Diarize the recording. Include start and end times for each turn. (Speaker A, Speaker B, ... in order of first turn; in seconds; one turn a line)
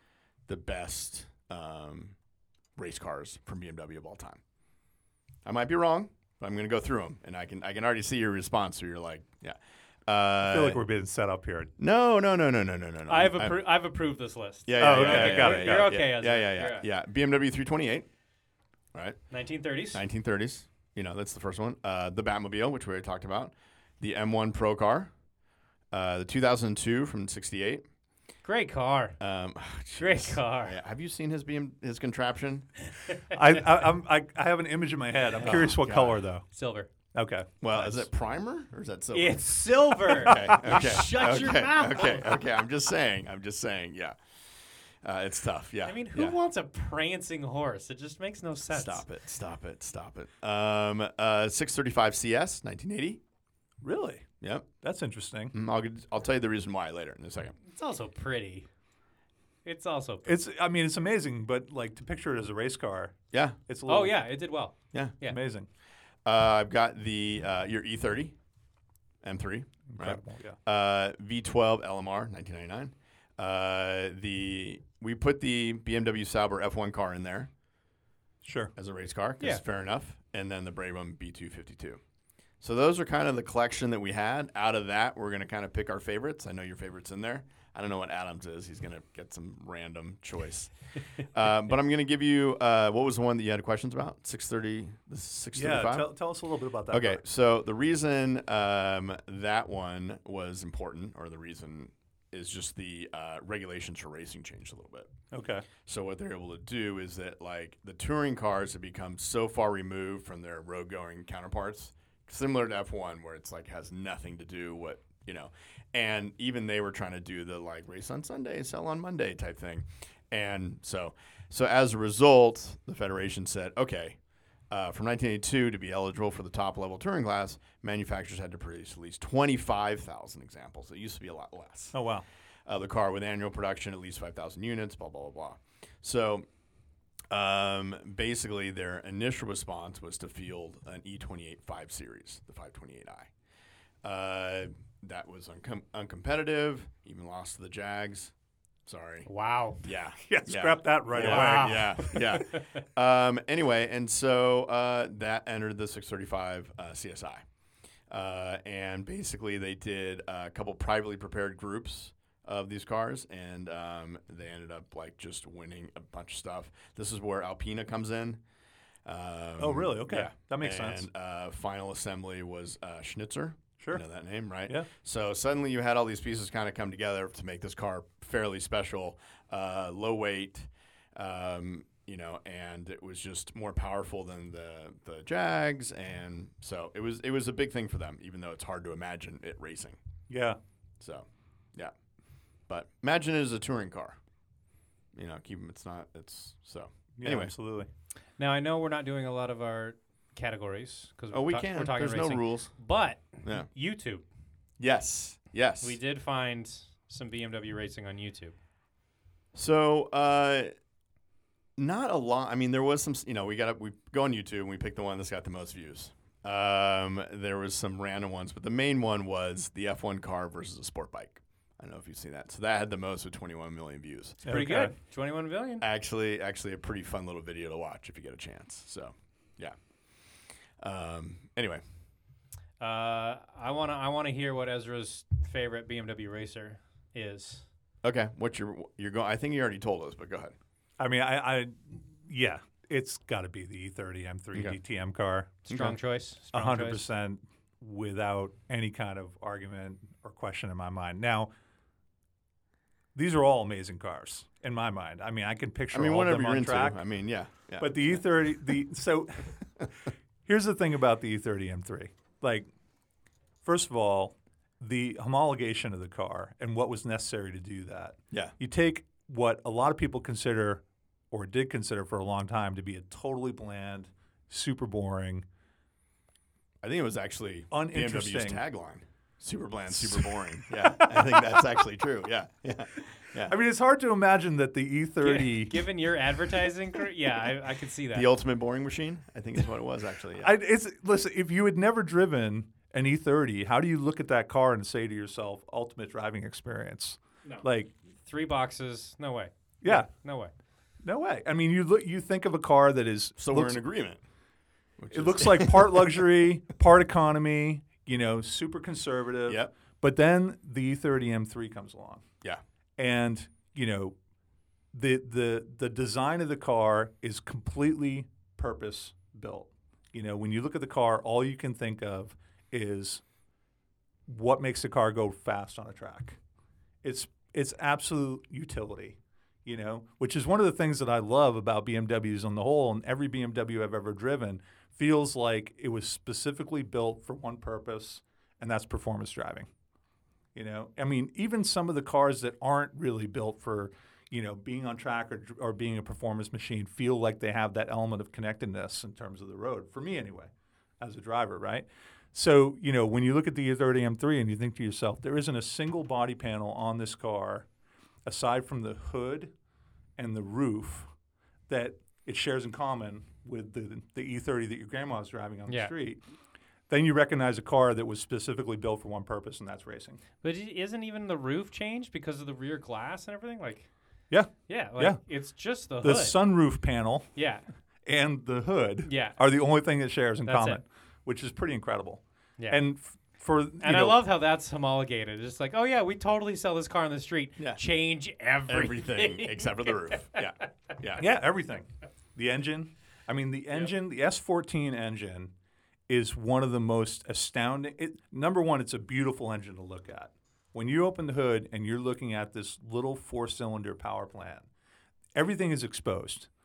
Speaker A: 0.5-2.1
Speaker A: 2.8-4.4
Speaker A: 5.4-10.8
Speaker B: 10.4-11.7
Speaker A: 11.8-13.6
Speaker C: 13.1-16.9
Speaker A: 14.7-18.1
Speaker B: 14.8-15.9
Speaker A: 18.9-19.2
Speaker C: 19.3-20.0
Speaker A: 19.9-25.1
Speaker A: 25.9-27.8
Speaker C: 28.4-29.2
Speaker A: 29.2-32.7
Speaker C: 30.0-30.8
Speaker B: 33.3-36.5
Speaker A: 35.4-36.2
Speaker C: 36.5-36.9
Speaker B: 37.1-38.1
Speaker A: 37.6-39.5
Speaker C: 39.1-42.4
Speaker A: 40.1-44.1
Speaker B: 40.3-40.6
Speaker A: 45.0-46.4
Speaker C: 45.9-49.0
Speaker A: 48.7-53.2
Speaker B: 53.8-54.3
Speaker A: 54.4-54.6
Speaker B: 54.8-55.5
Speaker A: 55.5-57.5
Speaker C: 57.7-58.7
Speaker C: 59.6-60.3
Speaker B: 60.2-63.1
Speaker A: 63.3-63.6
Speaker B: 63.7-64.2
Speaker C: 63.9-65.4
Speaker B: 65.2-65.7
Speaker A: 66.2-68.3
Speaker A: 69.2-77.5
Speaker B: 69.9-70.6
Speaker B: 78.4-78.7
Speaker A: 78.8-82.0
Speaker A: 82.6-96.1
Speaker B: 95.5-97.2
Speaker A: 96.9-105.1
Speaker B: 105.3-105.7
Speaker A: 105.8-124.2
Speaker A: 124.7-131.9
Speaker B: 131.9-132.2
Speaker A: 132.7-136.4
Speaker A: 137.3-143.3
Speaker A: 144.0-148.3
Speaker A: 148.8-149.3
Speaker C: 149.2-149.8
Speaker A: 149.8-157.4
Speaker B: 150.2-152.2
Speaker C: 151.1-152.2
Speaker A: 158.1-168.4
Speaker A: 169.0-190.0
Speaker B: 169.6-171.1
Speaker B: 190.3-190.6
Speaker A: 191.0-191.9
Speaker A: 192.7-194.2
Speaker A: 195.1-197.5
Speaker B: 197.2-197.9
Speaker C: 198.4-204.2
Speaker A: 201.3-202.7
Speaker A: 204.8-206.0
Speaker C: 205.8-208.5
Speaker A: 209.5-210.7
Speaker A: 211.8-224.4
Speaker C: 224.4-225.8
Speaker B: 224.4-224.9
Speaker A: 225.8-229.7
Speaker A: 230.8-231.8
Speaker C: 232.8-237.6
Speaker A: 238.0-240.5
Speaker B: 241.0-245.7
Speaker A: 245.7-246.0
Speaker C: 245.7-247.1
Speaker B: 246.5-251.5
Speaker B: 253.1-257.0
Speaker A: 255.9-258.5
Speaker B: 257.8-259.6
Speaker B: 260.4-262.7
Speaker B: 263.6-275.4
Speaker A: 276.8-283.5
Speaker B: 277.7-278.6
Speaker B: 279.9-281.6
Speaker B: 283.5-285.8
Speaker C: 285.2-288.3
Speaker A: 288.1-290.5
Speaker B: 290.4-297.9
Speaker C: 298.2-300.5
Speaker B: 299.8-300.1
Speaker B: 301.0-303.8
Speaker A: 303.4-304.2
Speaker A: 305.0-306.1
Speaker B: 305.1-312.2
Speaker A: 309.5-309.7
Speaker B: 313.0-314.1
Speaker B: 314.9-323.2
Speaker B: 324.3-326.4
Speaker B: 327.0-339.7
Speaker B: 340.5-357.6
Speaker B: 358.2-359.5
Speaker B: 360.2-361.1
Speaker B: 361.7-366.2
Speaker C: 365.7-365.9
Speaker B: 366.9-370.2
Speaker C: 370.4-373.9
Speaker B: 374.3-375.2
Speaker C: 374.7-376.4
Speaker B: 376.0-377.3
Speaker C: 377.4-377.6
Speaker B: 378.1-384.2
Speaker C: 379.0-379.4
Speaker C: 380.5-380.8
Speaker C: 383.8-390.5
Speaker A: 388.7-391.2
Speaker B: 391.2-395.5
Speaker B: 396.1-404.7
Speaker B: 405.3-406.5